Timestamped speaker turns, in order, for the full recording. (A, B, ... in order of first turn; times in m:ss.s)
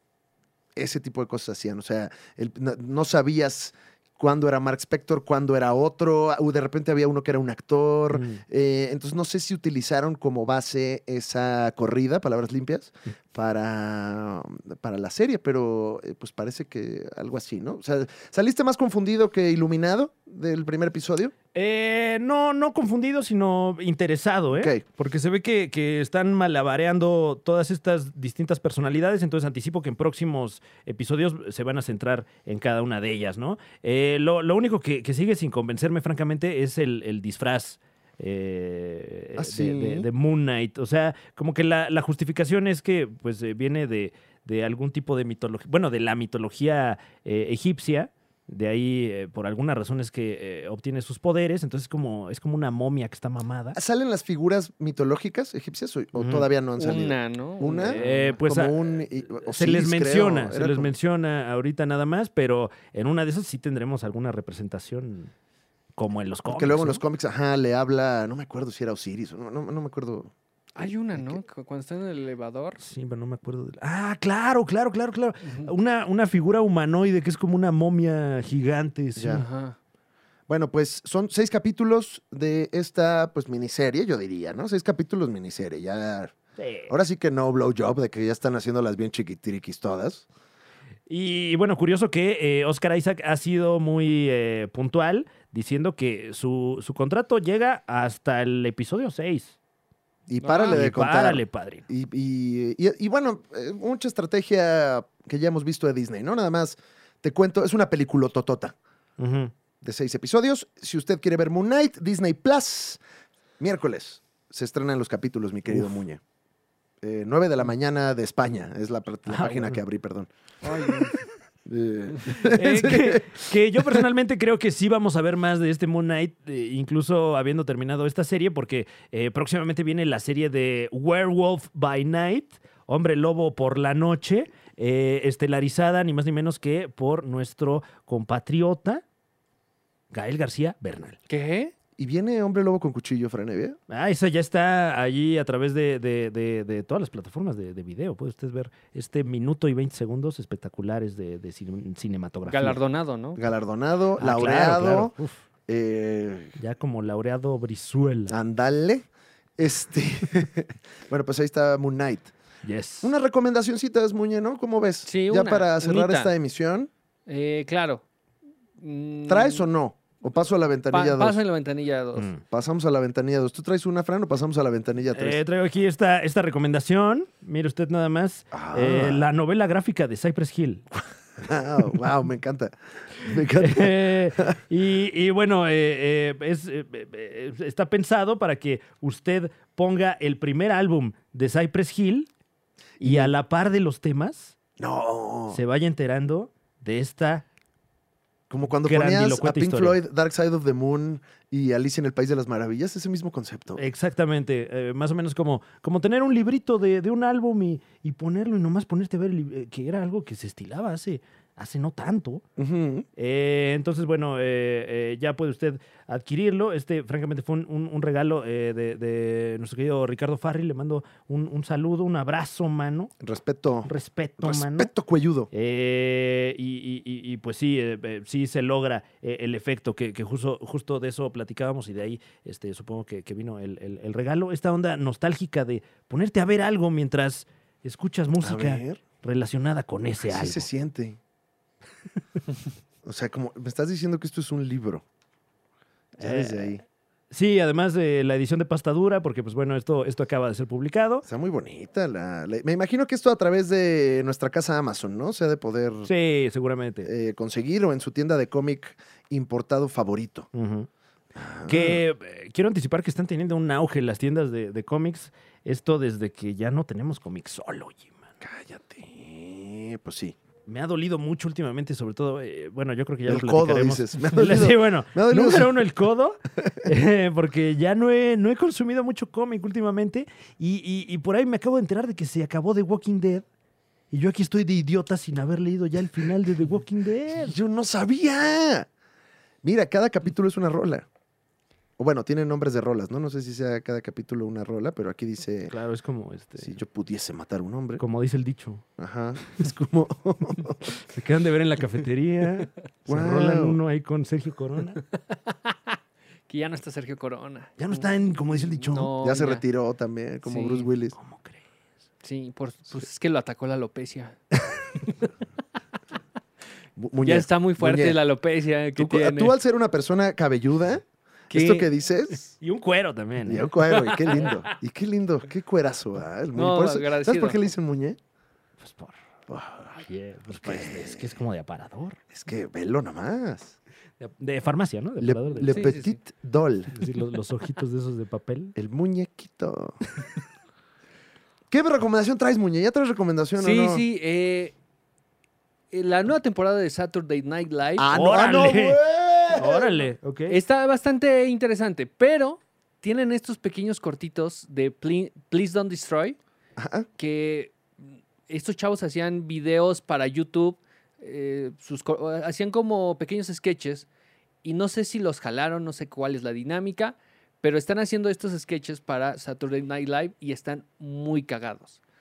0:00.8-0:21.3 A
0:08.1-0:08.4 B
0:21.5-0:53.8 B
0:24.5-0:24.8 A
0:39.4-0:40.1 A
0:53.8-1:00.9 A
0:56.2-0:56.5 B
0:56.8-0:58.4 C
0:57.8-0:58.8 B
0:59.4-1:05.3 B
1:06.0-1:07.0 B
1:06.5-1:10.3 A
1:10.8-1:12.8 C
1:12.8-1:19.4 B
1:19.2-1:19.4 A
1:19.3-1:19.8 C
1:20.5-1:26.3 A
1:26.6-1:26.9 B
1:26.9-1:30.3 A
1:31.1-1:39.6 B
1:40.3-1:48.8 A
1:40.4-1:40.8 C
1:40.7-1:41.8 B
1:49.2-1:49.5 B
1:49.8-1:53.0 A
1:53.6-1:56.2 A
1:57.0-2:00.3 A
1:59.3-1:59.8 B
2:00.6-2:01.1 C
2:01.7-2:04.1 A
2:02.3-2:19.0 B
2:20.1-2:21.2 B
2:21.3-2:21.7 C
2:22.0-2:23.8 A
2:23.9-2:32.8 B
2:32.5-2:33.4 C
2:33.4-2:35.1 A
2:34.2-2:35.4 B
2:35.7-2:36.6 A
2:36.6-2:38.4 B
2:38.3-2:39.0 A
2:39.6-2:42.3 A
2:42.6-2:43.1 B
2:43.0-2:46.9 A
2:45.0-2:46.3 C
2:47.3-2:48.0 C
2:48.8-2:49.7 C
2:49.3-2:51.4 A
2:50.9-2:52.3 C
2:52.2-2:52.4 B
2:52.5-2:55.4 A
2:55.1-3:00.9 B
2:58.5-2:59.3 A
3:01.4-3:04.6 A
3:03.2-3:12.3 B
3:13.0-3:14.6 B
3:13.0-3:13.3 A
3:14.8-3:15.6 A
3:15.5-3:17.4 B
3:18.5-3:23.8 A
3:18.8-3:20.0 B
3:23.8-3:32.4 B
3:32.6-3:33.1 A
3:33.2-3:43.1 B
3:43.2-3:45.5 A
3:43.9-3:44.9 B
3:45.5-4:00.7 B
3:58.4-3:59.0 A
4:00.2-4:01.2 A
4:03.0-4:05.0 A
4:06.2-4:06.8 B
4:06.2-4:06.8 A
4:07.3-4:11.2 B
4:11.2-4:16.1 A
4:16.1-4:17.1 B
4:17.0-4:20.5 A
4:20.5-4:20.9 B
4:21.4-4:22.0 A
4:21.7-4:28.2 B
4:28.4-4:30.4 A
4:30.7-4:43.4 B
4:33.3-4:35.8 A
4:44.1-4:47.6 B
4:47.4-4:48.9 A
4:49.6-4:51.1 A
4:52.0-4:55.7 A
4:55.7-4:56.8 B
4:56.6-4:58.0 A
4:58.0-4:58.8 B
4:59.0-5:00.9 A
5:01.0-5:05.0 B
5:03.1-5:03.8 A
5:05.3-5:06.0 C
5:06.5-5:08.1 C
5:07.8-5:09.1 B
5:08.7-5:09.6 C
5:09.2-5:11.2 A
5:10.4-5:10.9 C
5:11.1-5:11.6 B
5:12.2-5:14.4 C
5:17.0-5:18.2 A
5:17.2-5:19.6 C
5:19.0-5:22.5 A
5:21.5-5:21.9 C
5:22.6-5:24.5 B
5:23.4-5:28.2 A
5:26.5-5:27.7 C
5:28.8-5:29.2 B
5:29.5-5:30.0 A
5:30.0-5:32.2 B
5:30.6-5:31.3 A
5:32.3-5:33.8 A
5:34.2-5:36.0 B
5:35.2-5:36.9 A
5:35.6-5:36.2 C
5:36.9-5:38.8 B
5:38.8-5:40.0 A
5:41.7-5:44.0 A
5:43.6-5:44.8 C
5:45.9-5:48.1 C
5:48.0-5:50.1 A
5:48.1-5:49.0 B
5:49.5-5:50.6 B
5:50.5-5:56.4 C
5:56.8-5:57.1 A
5:57.2-5:57.8 C
5:58.5-6:04.1 C
6:04.6-6:12.0 C